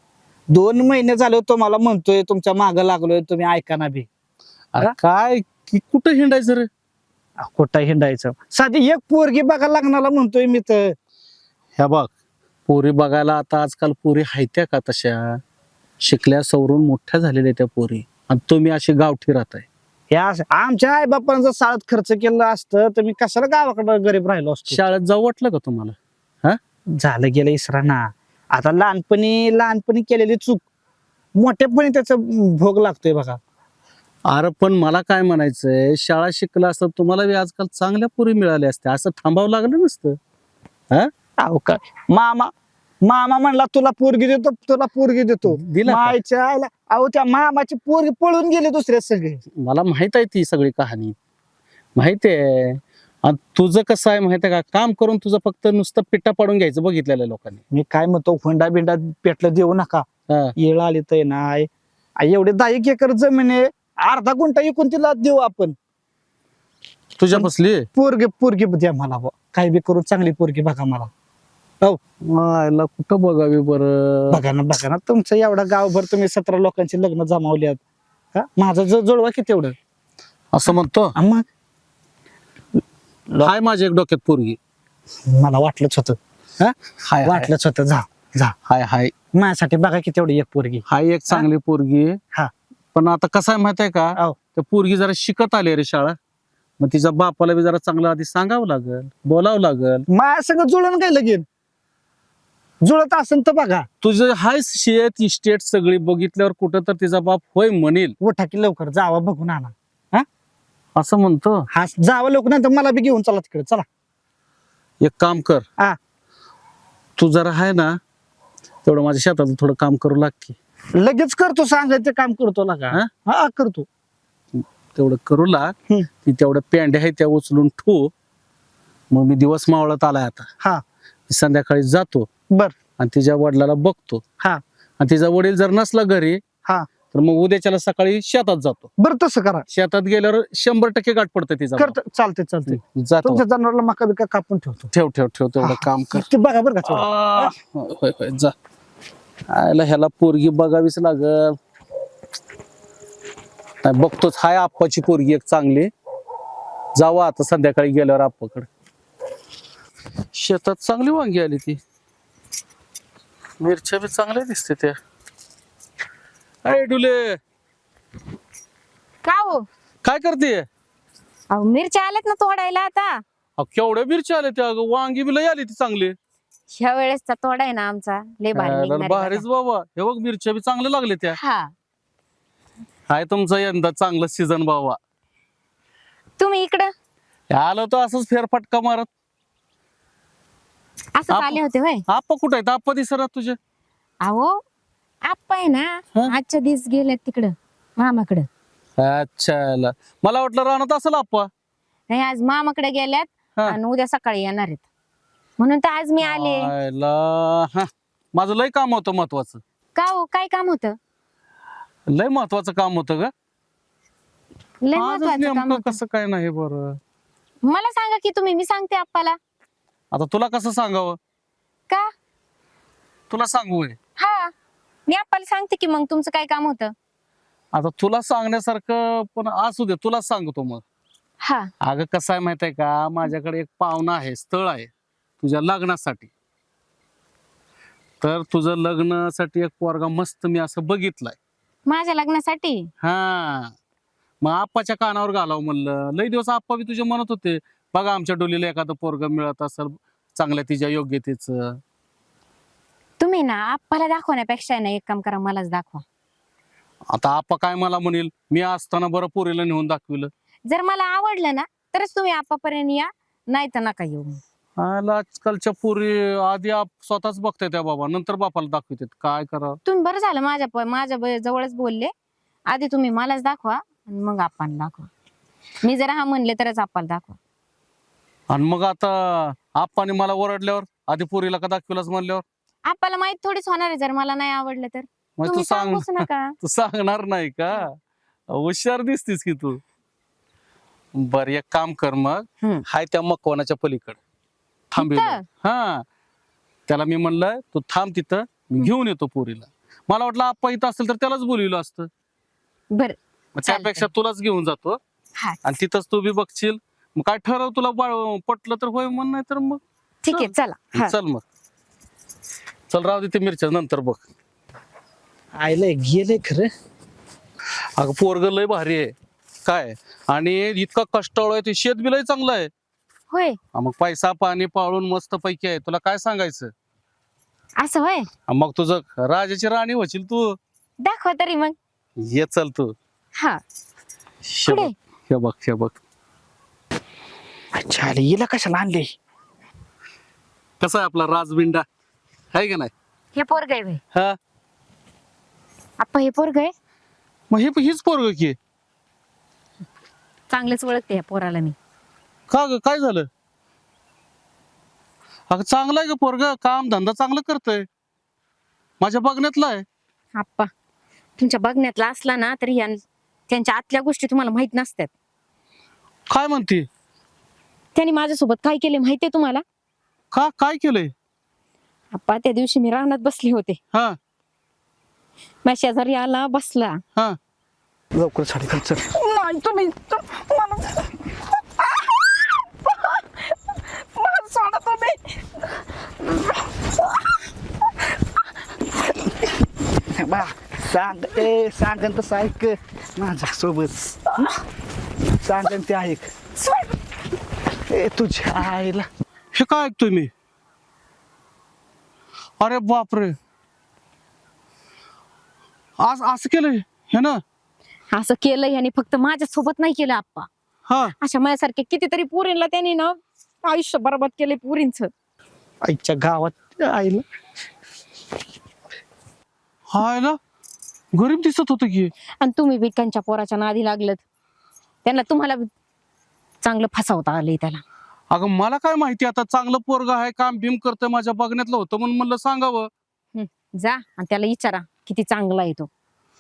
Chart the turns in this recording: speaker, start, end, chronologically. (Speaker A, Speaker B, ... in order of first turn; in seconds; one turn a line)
Speaker A: 0.5-4.1
Speaker B: 4.7-6.7
Speaker A: 7.4-10.9
Speaker B: 11.8-12.1
Speaker B: 12.7-15.4
Speaker B: 16.0-19.7
Speaker A: 20.1-24.8
Speaker B: 24.7-26.6
Speaker A: 27.0-30.6
Speaker A: 31.4-33.4
Speaker B: 34.3-40.2
Speaker A: 41.4-42.5
Speaker A: 43.0-49.4
Speaker B: 45.5-46.2
Speaker B: 49.6-51.1
Speaker B: 52.0-57.6
Speaker A: 57.7-60.1
Speaker A: 60.6-61.7
Speaker A: 62.2-65.8
Speaker B: 67.2-67.8
Speaker A: 67.3-71.1
Speaker B: 72.2-74.4
Speaker A: 74.3-77.8
Speaker A: 78.3-79.7
Speaker B: 80.5-81.1
Speaker A: 80.7-81.4
Speaker B: 83.4-84.6
Speaker A: 85.3-88.5
Speaker B: 87.1-87.5
Speaker B: 88.7-89.1
Speaker A: 89.3-91.5
Speaker B: 90.9-92.2
Speaker B: 92.9-96.2
Speaker B: 96.8-100.0
Speaker A: 100.1-101.5
Speaker A: 102.8-103.9
Speaker B: 104.0-108.2
Speaker A: 108.2-110.3
Speaker B: 111.0-111.7
Speaker A: 111.7-113.8
Speaker B: 115.0-115.6
Speaker B: 117.2-118.0
Speaker B: 118.8-120.6
Speaker A: 121.0-123.9
Speaker B: 124.5-125.7
Speaker B: 126.2-128.1
Speaker B: 129.1-130.5
Speaker B: 131.3-132.3
Speaker B: 133.0-134.2
Speaker B: 135.0-136.4
Speaker B: 137.1-138.9
Speaker A: 139.0-139.7
Speaker B: 139.7-142.0
Speaker A: 141.8-144.9
Speaker B: 142.7-143.4
Speaker B: 144.9-146.3
Speaker A: 145.6-147.5
Speaker B: 146.9-148.5
Speaker B: 149.5-151.6
Speaker B: 153.8-155.9
Speaker B: 156.9-158.7
Speaker B: 160.3-161.8
Speaker B: 163.6-165.0
Speaker B: 166.6-167.4
Speaker C: 169.2-169.7
Speaker B: 170.0-170.7
Speaker C: 171.5-173.2
Speaker B: 173.6-176.2
Speaker C: 176.7-179.4
Speaker B: 178.5-181.4
Speaker C: 181.3-181.7
Speaker B: 183.1-185.0
Speaker C: 186.4-186.9
Speaker B: 187.5-189.1
Speaker C: 191.2-192.0
Speaker B: 191.3-193.6
Speaker C: 194.2-194.6
Speaker C: 195.2-198.5
Speaker B: 199.0-201.5
Speaker C: 202.1-204.8
Speaker C: 205.6-206.7
Speaker B: 206.2-209.6
Speaker C: 210.0-211.0
Speaker B: 212.1-213.3
Speaker C: 214.8-216.0
Speaker B: 214.9-217.0
Speaker C: 217.7-219.4
Speaker B: 220.1-221.2
Speaker B: 223.3-224.0
Speaker C: 224.2-224.5
Speaker C: 225.1-226.9
Speaker B: 227.7-230.8
Speaker C: 231.4-231.7
Speaker B: 231.8-234.9
Speaker B: 235.4-236.3
Speaker B: 238.2-241.4
Speaker C: 241.9-242.9
Speaker B: 243.0-243.7
Speaker B: 244.4-251.8
Speaker C: 253.2-256.0
Speaker B: 257.1-260.3
Speaker C: 260.7-264.4
Speaker B: 264.8-269.8
Speaker C: 269.9-272.1
Speaker C: 272.7-275.1
Speaker C: 275.8-277.4
Speaker B: 278.5-282.4
Speaker C: 282.9-286.5
Speaker B: 285.4-288.0
Speaker B: 288.5-289.8
Speaker B: 291.1-294.2
Speaker B: 294.9-296.0
Speaker C: 295.0-295.4
Speaker B: 296.9-302.1
Speaker C: 302.9-304.1
Speaker B: 303.6-305.0
Speaker B: 305.6-311.4
Speaker C: 310.2-311.1
Speaker B: 312.9-314.2
Speaker A: 315.6-316.7
Speaker B: 318.0-319.1
Speaker B: 319.6-322.7
Speaker C: 323.3-323.6
Speaker B: 323.7-326.7
Speaker C: 327.8-328.3
Speaker B: 328.5-330.6
Speaker C: 331.0-331.8
Speaker B: 332.2-332.9
Speaker B: 334.4-336.0
Speaker C: 334.7-334.9
Speaker A: 337.8-339.1
Speaker B: 340.8-341.9
Speaker B: 342.5-342.9
Speaker C: 343.4-344.0
Speaker C: 346.0-346.7
Speaker B: 347.5-348.6
Speaker C: 350.5-351.8
Speaker B: 352.5-353.3
Speaker B: 355.5-357.9
Speaker B: 359.0-359.8
Speaker C: 360.4-360.7
Speaker C: 361.4-365.1
Speaker B: 366.3-366.9
Speaker C: 367.9-369.6
Speaker B: 370.3-371.1
Speaker C: 372.1-373.8
Speaker C: 375.6-377.0
Speaker A: 378.1-379.1
Speaker C: 379.2-381.0
Speaker C: 383.8-385.3
Speaker A: 390.1-394.5
Speaker A: 395.4-396.3
Speaker A: 397.8-399.1
Speaker B: 399.5-400.3
Speaker B: 402.6-403.4
Speaker B: 406.0-407.4
Speaker C: 408.1-410.5
Speaker B: 410.9-411.1
Speaker C: 411.2-415.1
Speaker A: 415.9-417.2
Speaker B: 419.9-420.4
Speaker B: 421.1-422.1
Speaker C: 422.4-424.2
Speaker C: 425.1-425.7
Speaker C: 426.6-427.8
Speaker B: 428.3-432.9
Speaker C: 433.4-435.9